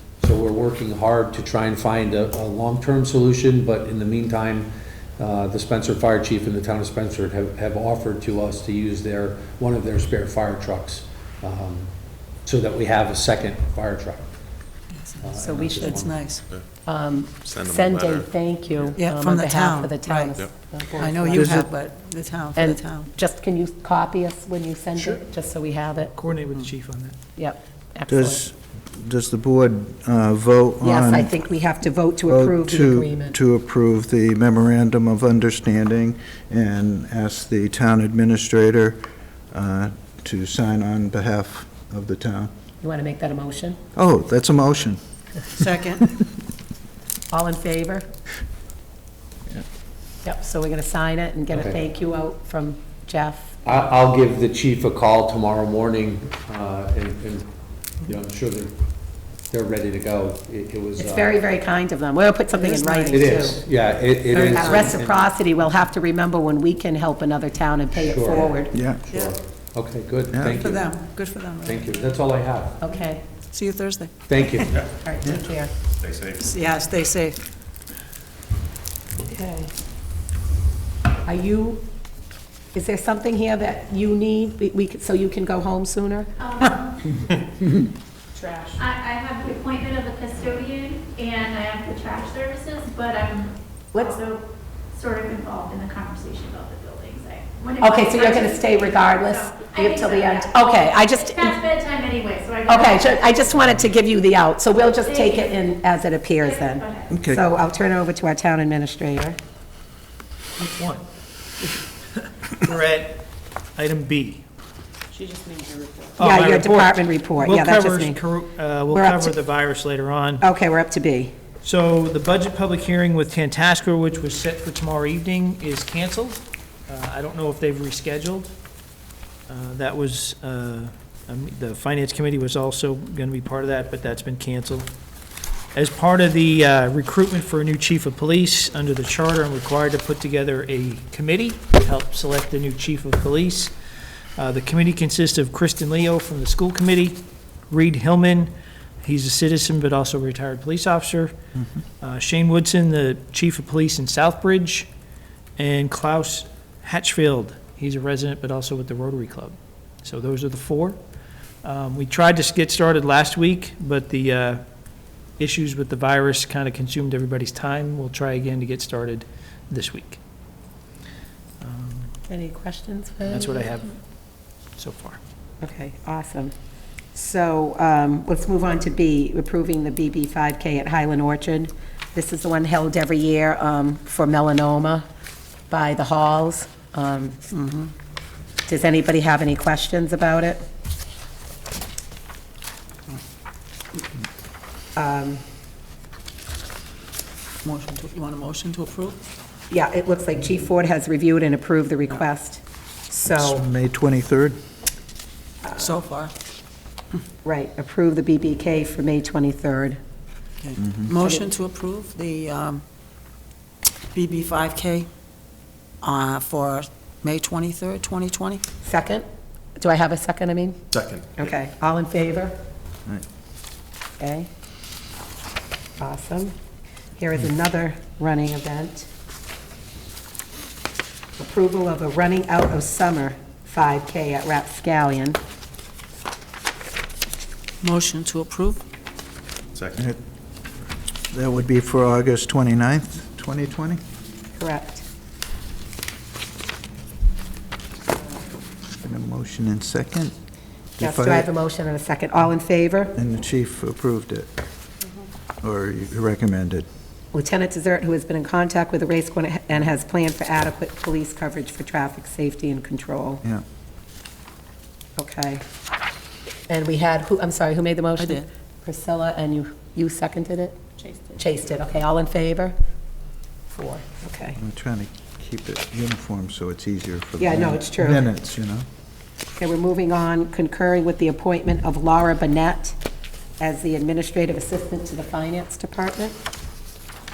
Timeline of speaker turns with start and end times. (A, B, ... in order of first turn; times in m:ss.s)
0:00.2-0:14.3 A
0:15.0-0:15.2 B
0:15.2-0:16.2 A
0:15.4-0:16.1 C
0:15.8-0:16.4 B
0:15.9-0:16.7 D
0:16.8-0:21.7 C
0:17.4-0:19.2 D
0:19.0-0:20.4 B
0:20.2-0:21.6 D
0:21.0-0:23.1 B
0:21.3-0:21.7 E
0:22.6-0:26.1 C
0:26.1-0:27.2 F
0:27.4-0:28.4 C
0:28.1-0:31.4 E
0:30.8-0:33.4 C
0:32.3-0:42.5 E
0:42.8-0:43.8 C
0:44.0-0:45.0 E
0:45.6-0:46.1 B
0:47.3-0:48.1 C
0:50.2-0:53.6 C
0:51.5-0:51.8 A
0:53.6-0:57.5 A
0:58.0-0:58.7 A
0:59.5-1:01.4 A
1:01.0-1:03.6 C
1:02.6-1:03.5 B
1:03.1-1:05.2 A
1:04.3-1:04.9 B
1:04.4-1:08.7 C
1:08.0-1:11.0 A
1:08.7-1:09.0 E
1:10.3-1:10.6 E
1:10.6-1:12.0 B
1:11.6-1:12.8 A
1:12.8-1:13.2 C
1:13.5-1:14.2 B
1:14.3-1:14.8 A
1:14.9-1:15.7 C
1:16.0-1:16.6 D
1:16.4-1:17.4 B
1:19.2-1:19.7 C
1:21.2-1:21.8 C
1:22.7-1:26.3 C
1:26.4-1:26.7 G
1:28.8-1:34.4 G
1:33.9-1:34.2 C
1:34.9-1:43.2 G
1:37.8-1:41.6 C
1:42.7-1:49.4 C
1:45.1-1:45.4 G
1:46.5-1:47.1 G
1:47.1-1:47.4 E
1:50.6-1:51.0 F
1:51.6-1:53.2 F
1:53.8-1:54.5 F
1:55.2-1:56.1 D
1:56.2-2:00.4 F
1:56.2-1:58.2 C
1:58.9-1:59.4 C
2:00.4-2:01.3 C
2:01.6-2:08.5 F
2:09.5-2:14.9 F
2:15.7-2:23.7 F
2:24.4-2:31.3 F
2:32.0-2:34.9 F
2:35.6-2:41.0 F
2:41.6-2:44.6 F
2:45.4-2:50.2 F
2:51.6-2:52.1 F
2:52.3-2:53.6 C
2:53.3-2:54.0 F
2:54.8-2:55.2 F
2:55.6-2:56.5 C
2:57.1-3:05.1 C
3:05.7-3:07.4 C
3:07.5-3:07.9 B
3:08.7-3:10.6 C
3:15.0-3:15.4 C
3:17.6-3:19.2 B
3:19.7-3:23.6 C
3:23.4-3:24.6 E
3:25.8-3:26.3 B
3:27.4-3:30.0 C
3:30.6-3:32.8 B
3:30.8-3:31.1 E
3:31.2-3:31.5 C
3:34.1-3:35.1 B
3:36.0-3:38.6 B
3:38.8-3:39.2 C
3:39.8-3:40.8 C
3:41.0-3:41.3 D
3:41.4-3:42.6 C
3:44.2-3:44.5 C
3:46.0-3:46.5 C
3:47.2-3:49.1 C
3:51.4-3:55.4 C
3:57.8-3:58.8 B
3:59.8-4:00.0 D
4:01.3-4:04.0 E
4:04.6-4:05.0 C
4:09.0-4:10.3 E
4:11.0-4:11.5 E
4:11.0-4:13.2 C
4:13.2-4:14.5 E
4:15.6-4:16.9 E
4:17.3-4:23.4 C
4:25.2-4:25.6 C
4:26.7-4:30.8 C
4:28.2-4:28.4 B
4:31.4-4:32.8 C
4:33.7-4:34.6 C
4:34.6-4:38.8 E
4:37.4-4:38.3 C
4:39.6-4:43.0 C
4:43.6-4:46.4 C